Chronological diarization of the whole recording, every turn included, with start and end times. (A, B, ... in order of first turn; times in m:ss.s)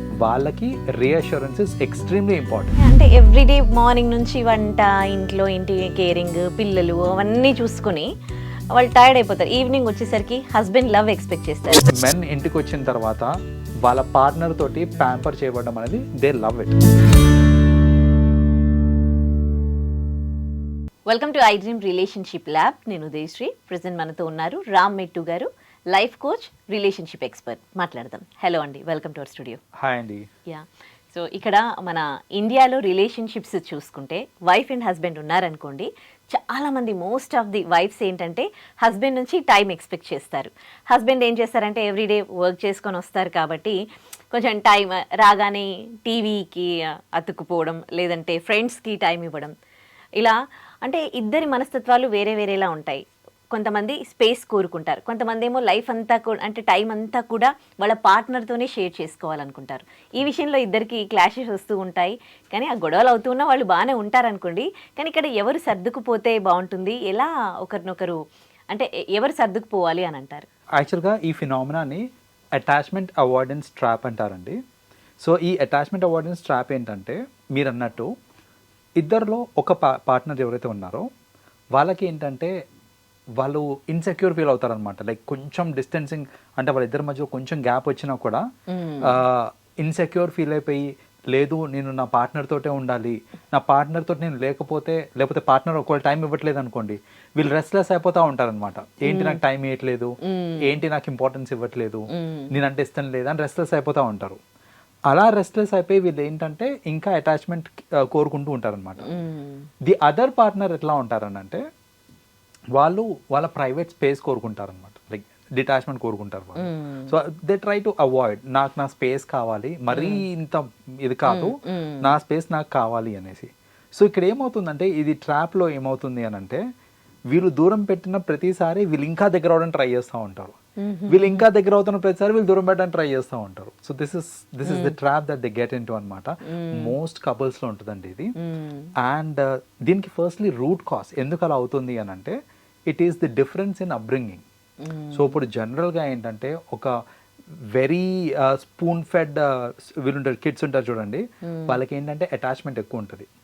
0:00.2-0:02.8 A
0:02.8-0:08.1 B
0:08.8-0:11.9 B
0:11.8-0:13.3 A
0:13.8-0:16.8 A
0:21.1-0:29.6 B
0:29.8-0:30.3 A
0:30.5-0:43.8 B
0:44.3-0:49.5 B
0:50.2-1:08.2 B
1:08.7-1:10.5 B
1:10.8-1:12.0 A
1:12.6-1:14.6 A
1:15.2-1:18.1 A
1:19.0-1:21.1 A
1:21.8-1:22.5 A
1:23.4-1:28.4 A
1:28.7-1:29.2 B
1:29.1-1:44.4 A
1:39.1-1:39.4 B
1:40.3-1:40.8 B
1:42.1-1:42.5 B
1:45.1-1:49.1 A
1:49.1-1:49.6 B
1:49.9-1:51.6 A
1:52.8-2:06.6 A
1:56.6-1:57.1 B
1:59.9-2:00.2 B
2:01.3-2:02.1 B
2:07.3-2:10.6 A
2:10.8-2:11.4 B
2:11.1-2:18.3 A
2:14.7-2:15.0 B
2:16.5-2:16.9 B
2:18.4-2:18.9 B
2:19.0-2:22.4 A
2:22.9-2:24.4 A
2:24.9-2:25.4 B
2:25.1-2:26.9 A
2:27.8-2:33.3 A
2:31.5-2:31.8 B